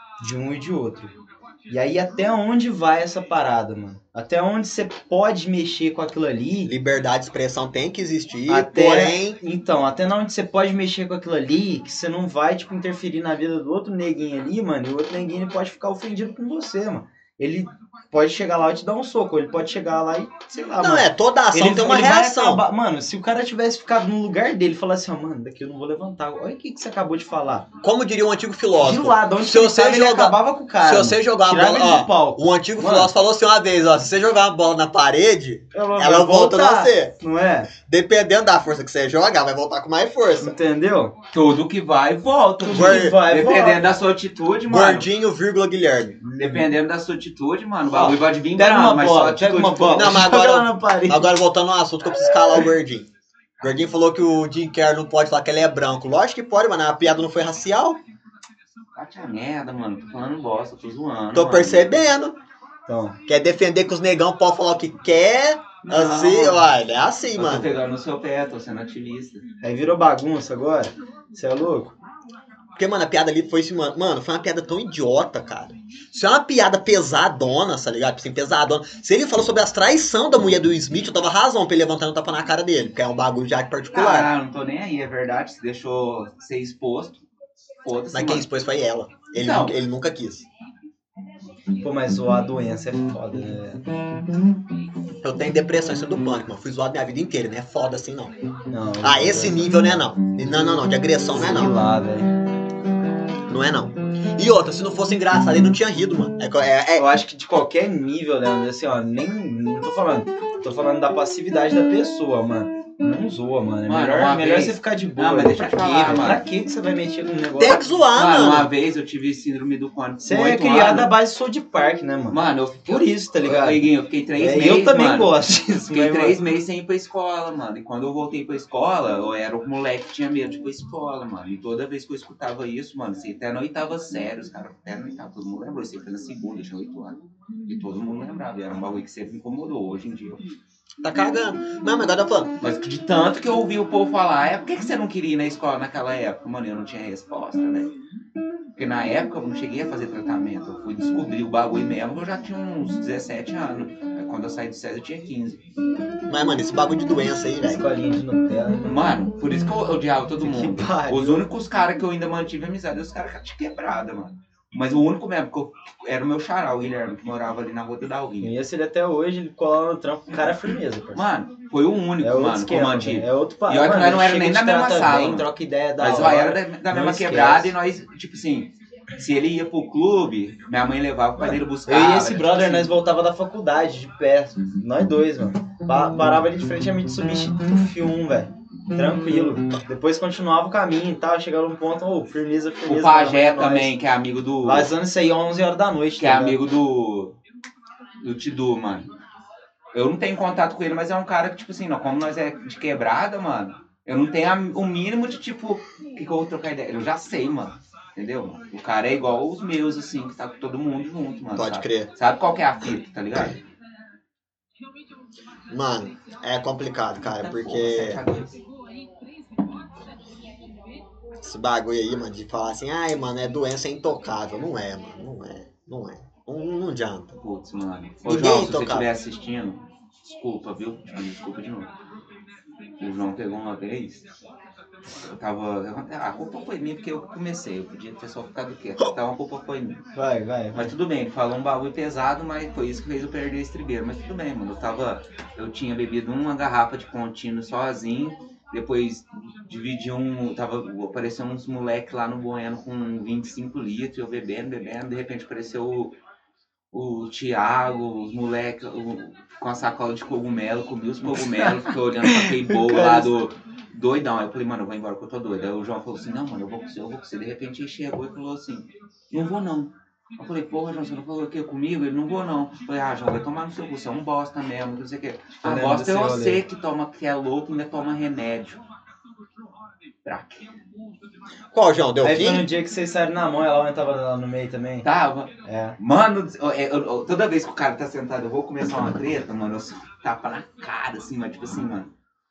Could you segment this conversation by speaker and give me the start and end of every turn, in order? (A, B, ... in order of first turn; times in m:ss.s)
0:00.2-0:01.1 A
0:01.7-0:06.7 A
0:06.6-0:09.4 B
0:08.5-0:27.7 A
0:20.8-0:22.6 B
0:27.8-0:37.1 B
0:28.8-0:33.1 A
0:35.7-0:37.7 A
0:37.8-0:40.6 B
0:40.4-0:41.1 A
0:41.3-0:45.1 C
0:42.6-0:43.8 A
0:42.7-0:43.2 B
0:44.7-0:46.2 B
0:46.2-0:46.7 A
0:46.4-0:50.1 C
0:47.9-0:51.3 A
0:49.9-0:53.1 B
0:53.6-0:58.0 B
0:59.0-1:02.0 C
1:01.3-1:02.3 B
1:02.9-1:03.2 A
1:03.3-1:07.7 B
1:05.8-1:06.7 C
1:07.4-1:09.4 C
1:09.6-1:11.9 A
1:12.7-1:24.3 B
1:23.9-1:27.2 C
1:27.8-1:28.4 C
1:28.1-1:30.5 B
1:29.4-1:29.7 C
1:31.8-1:33.8 A
1:35.2-1:38.3 B
1:38.7-1:39.9 A
1:39.0-1:41.7 B
1:41.3-1:42.3 A
1:43.5-1:47.1 B
1:47.0-1:57.8 A
1:53.9-1:56.4 C
1:57.6-1:58.7 B
1:58.1-2:01.1 C
2:00.2-2:03.8 A
2:02.3-2:05.3 C
2:04.4-2:06.4 A
2:05.9-2:20.4 C
2:21.0-2:22.5 B
2:22.6-2:27.9 C
2:28.8-2:35.6 C
2:36.3-2:37.8 B
2:37.6-2:39.1 A
2:38.8-2:48.5 C
2:40.4-2:41.4 A
2:48.4-2:51.2 A
2:51.1-2:55.5 C
2:52.2-2:57.7 A
2:56.0-3:02.9 C
3:01.4-3:13.9 A
3:12.8-3:14.9 C
3:14.6-3:16.6 A
3:16.2-3:17.4 C
3:18.2-3:19.1 C
3:19.9-3:33.6 C
3:31.5-3:32.1 B
3:35.7-3:38.2 B
3:37.2-3:38.6 C
3:41.4-3:47.3 B
3:47.4-3:51.9 C
3:48.2-3:49.1 B
3:53.0-3:54.2 C
3:55.2-4:00.0 C
4:00.1-4:00.9 A
4:00.7-4:16.1 C
4:16.9-4:38.8 C
4:22.2-4:23.3 A
4:35.6-4:36.6 A
4:40.2-4:40.7 C
4:41.7-4:42.6 B
4:42.2-4:45.0 A
4:45.0-4:52.1 C
4:45.6-4:46.0 A